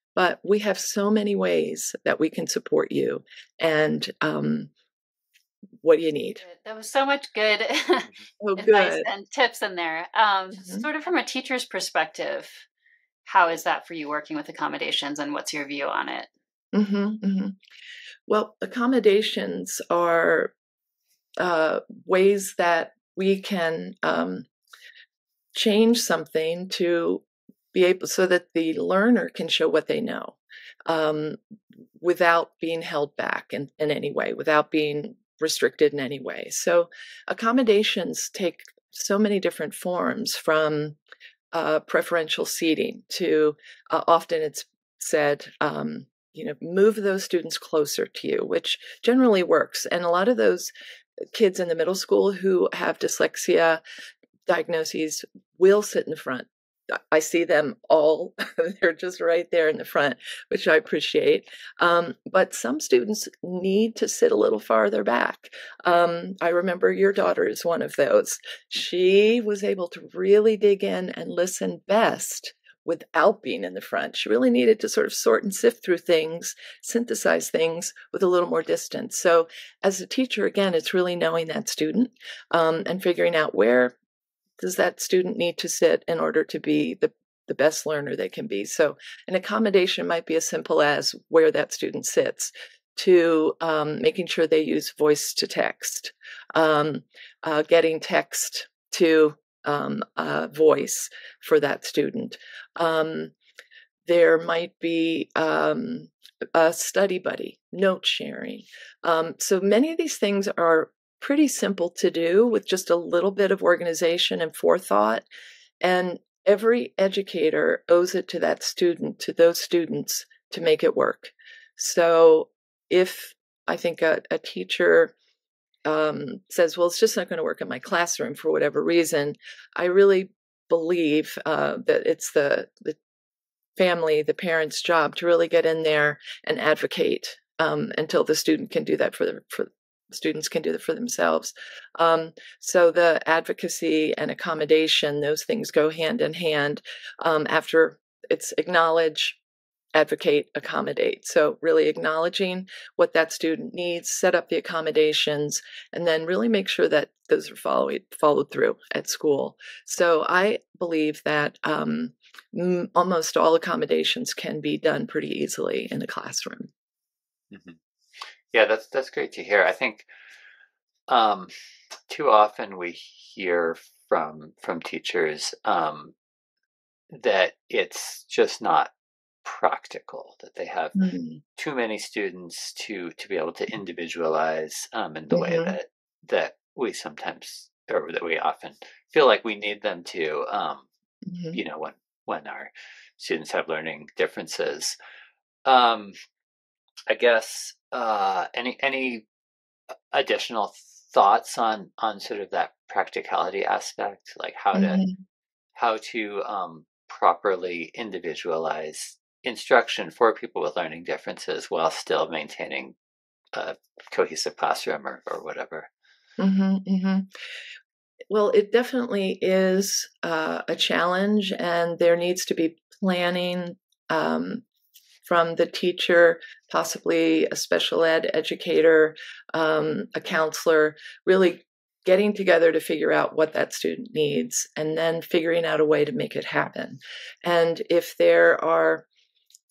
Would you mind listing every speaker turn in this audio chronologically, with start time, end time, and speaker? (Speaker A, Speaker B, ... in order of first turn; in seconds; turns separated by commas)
Speaker A: 0.1-4.7, Speaker A: 5.8-6.4, Speaker B: 6.4-12.7, Speaker A: 8.4-9.1, Speaker A: 10.6-10.9, Speaker B: 13.2-16.3, Speaker A: 16.7-17.6, Speaker A: 18.3-20.5, Speaker A: 21.4-24.5, Speaker A: 25.5-31.4, Speaker A: 32.0-41.0, Speaker A: 41.5-50.7, Speaker A: 51.3-53.8, Speaker A: 54.5-83.9, Speaker A: 84.6-103.3, Speaker A: 104.0-115.2, Speaker A: 115.8-125.1, Speaker A: 125.8-133.0, Speaker A: 133.8-149.4, Speaker A: 149.9-166.7, Speaker C: 167.5-167.8, Speaker C: 168.5-170.1, Speaker C: 171.1-171.5, Speaker C: 172.1-176.1, Speaker C: 177.1-178.9, Speaker C: 179.4-181.0, Speaker A: 180.9-181.4, Speaker C: 181.6-190.9, Speaker A: 185.3-185.8, Speaker A: 191.2-191.6, Speaker C: 191.5-194.9, Speaker C: 195.6-196.1, Speaker C: 197.1-199.2, Speaker C: 200.1-205.0, Speaker A: 204.7-205.2, Speaker C: 205.8-212.9, Speaker C: 213.5-215.9, Speaker A: 216.4-217.3, Speaker A: 218.3-224.6, Speaker A: 225.2-239.1